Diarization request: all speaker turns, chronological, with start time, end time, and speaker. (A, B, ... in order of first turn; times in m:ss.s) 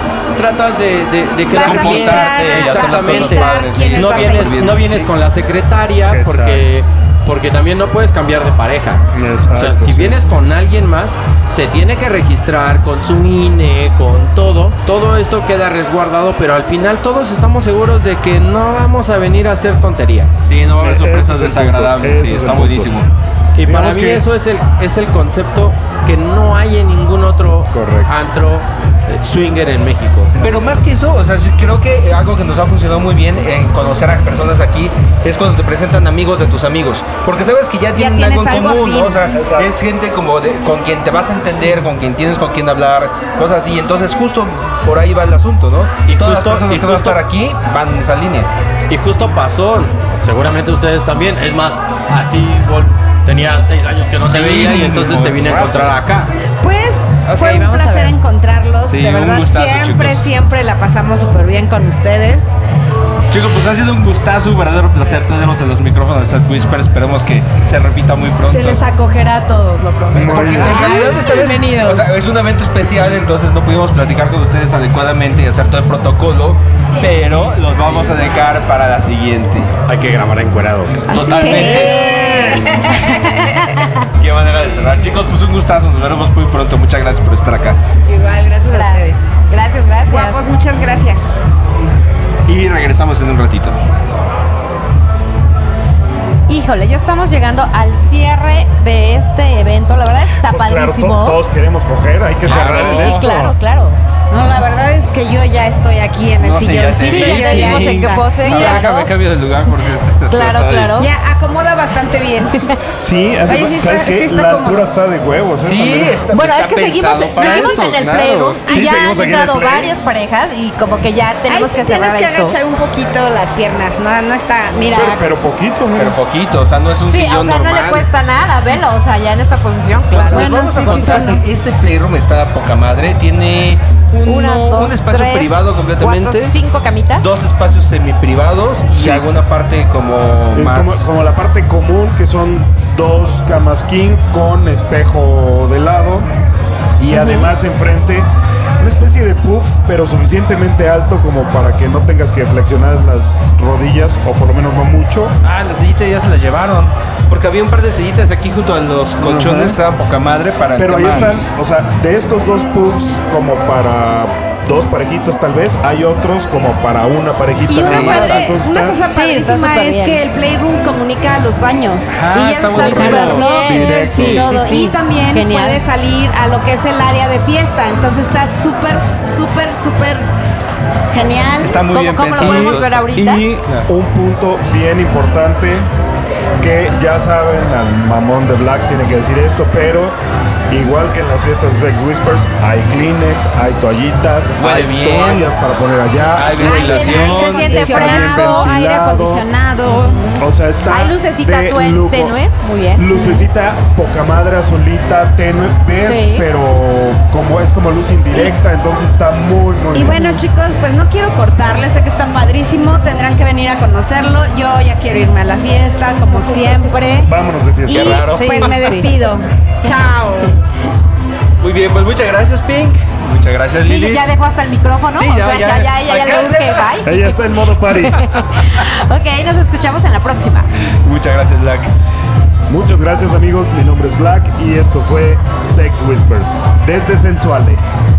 0:00.4-0:20.4 A
0:01.5-0:04.8 B
0:01.5-0:05.0 C
0:06.1-0:06.8 D
0:09.1-0:10.2 D
0:20.4-0:23.1 C
0:20.8-0:23.0 D
0:23.6-0:30.3 A
0:23.6-0:24.3 D
0:27.7-0:28.3 D
0:30.4-0:30.8 D
0:30.4-0:48.5 C
0:38.0-0:39.2 B
0:39.3-0:39.7 D
0:46.1-0:47.2 A
0:48.9-0:56.3 A
0:54.3-0:55.9 C
0:56.6-1:02.5 B
0:57.3-0:58.2 E
0:58.9-1:00.2 C
1:03.3-1:08.8 C
1:08.4-1:12.2 E
1:10.1-1:11.1 D
1:10.2-1:19.7 C
1:17.9-1:18.2 A
1:19.9-1:21.1 A
1:21.1-1:22.6 C
1:21.1-1:23.5 B
1:21.1-1:21.9 E
1:21.9-1:22.7 D
1:23.4-1:23.9 F
1:24.2-1:27.8 C
1:28.1-1:29.4 E
1:28.7-1:30.4 F
1:30.1-1:31.3 B
1:32.5-1:33.8 C
1:36.5-1:41.4 F
1:40.5-1:43.5 D
1:42.4-1:43.3 C
1:42.5-1:44.0 F
1:44.3-1:48.8 B
1:46.4-1:51.0 C
1:47.0-1:49.1 F
1:50.3-1:51.1 F
1:51.0-1:52.6 B
1:53.0-1:56.2 D
1:53.5-1:54.9 B
1:55.6-1:59.9 C
1:56.3-2:02.6 F
1:57.4-1:57.8 B
1:58.7-1:59.8 D
2:01.5-2:05.3 B
2:04.9-2:06.2 D
2:06.0-2:08.1 C
2:07.1-2:11.4 F
2:10.1-2:16.5 C
2:10.3-2:11.4 B
2:14.2-2:17.4 F
2:17.2-2:21.1 C
2:19.0-2:19.3 D
2:20.6-2:26.3 D
2:27.0-2:28.3 D
2:27.1-2:27.5 F
2:28.8-2:35.3 D
2:35.4-2:41.4 C
2:39.2-2:39.8 D
2:40.8-2:49.0 D
2:47.7-3:00.3 B
2:47.8-2:48.5 C
2:49.1-2:50.2 F
2:52.1-2:53.5 C
2:52.7-2:55.8 F
2:52.8-2:54.5 D
3:01.1-3:01.8 B
3:01.6-3:03.9 C
3:01.9-3:03.4 F
3:02.4-3:05.9 D
3:06.6-3:10.2 D
3:10.7-3:19.5 D
3:14.6-3:15.5 C
3:16.3-3:18.3 C
3:16.6-3:20.3 B
3:17.5-3:18.6 F
3:20.0-3:23.5 F
3:20.4-3:22.4 D
3:23.0-3:30.4 D
3:26.0-3:26.4 F
3:29.9-3:37.3 B
3:37.3-3:38.3 D
3:37.8-3:40.6 B
3:37.9-3:38.7 C
3:38.3-3:39.1 F
3:41.6-3:44.3 C
3:43.8-3:50.7 F
3:45.1-3:47.0 C
3:47.0-3:48.2 D
3:50.9-3:51.9 C
3:52.7-3:57.8 D